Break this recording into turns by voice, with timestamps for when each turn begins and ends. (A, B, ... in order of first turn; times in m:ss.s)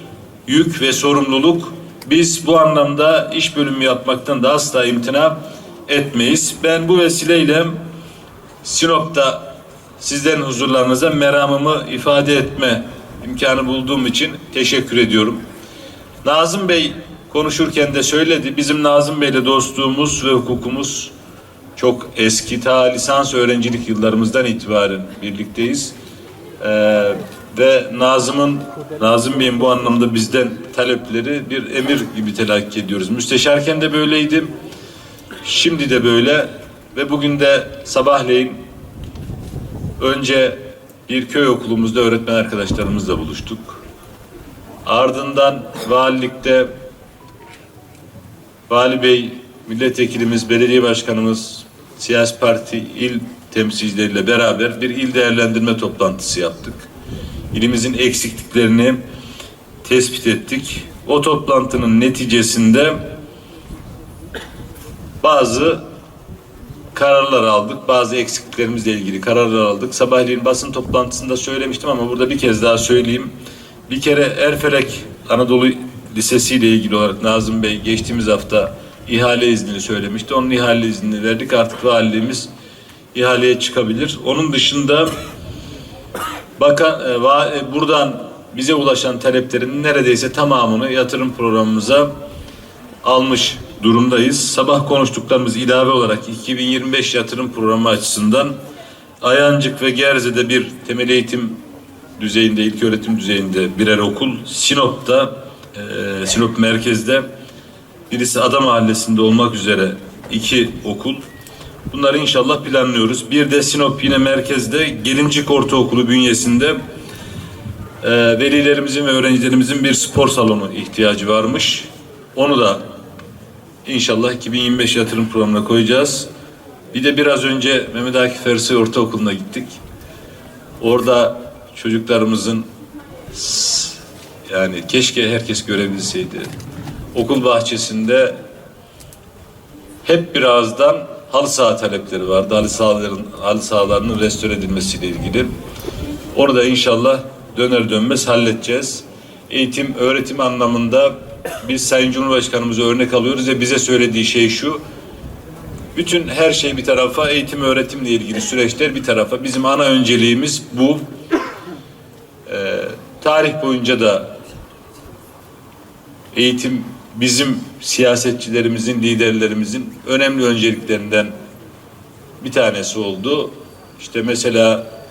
0:00.5-0:07.8 A
0:08.6-0:09.5 A
0:10.0-0:15.4 A
0:16.2-0:21.1 A
0:21.8-0:26.0 A
0:26.6-0:34.5 A
0:35.4-0:38.6 A
0:40.0-0:43.8 A
0:44.8-0:46.7 A
0:48.7-0:56.9 A
0:57.5-0:59.0 A
0:59.8-1:03.0 A
1:05.2-1:05.8 A
1:06.9-1:13.3 A
1:13.9-1:22.5 A
1:23.1-1:25.1 A
1:26.6-1:32.1 A
1:33.0-1:38.6 A
1:39.2-1:41.6 A
1:42.2-1:47.3 A
1:48.1-1:51.2 A
1:51.9-1:56.8 A
1:58.0-2:02.8 A
2:03.8-2:06.3 A
2:06.9-2:09.8 A
2:10.8-2:12.6 A
2:13.3-2:16.5 A
2:17.1-2:18.4 A
2:20.0-2:25.5 A
2:26.3-2:34.8 A
2:36.0-2:41.0 A
2:42.5-2:44.3 A
2:46.3-2:51.3 A
2:52.4-2:54.9 A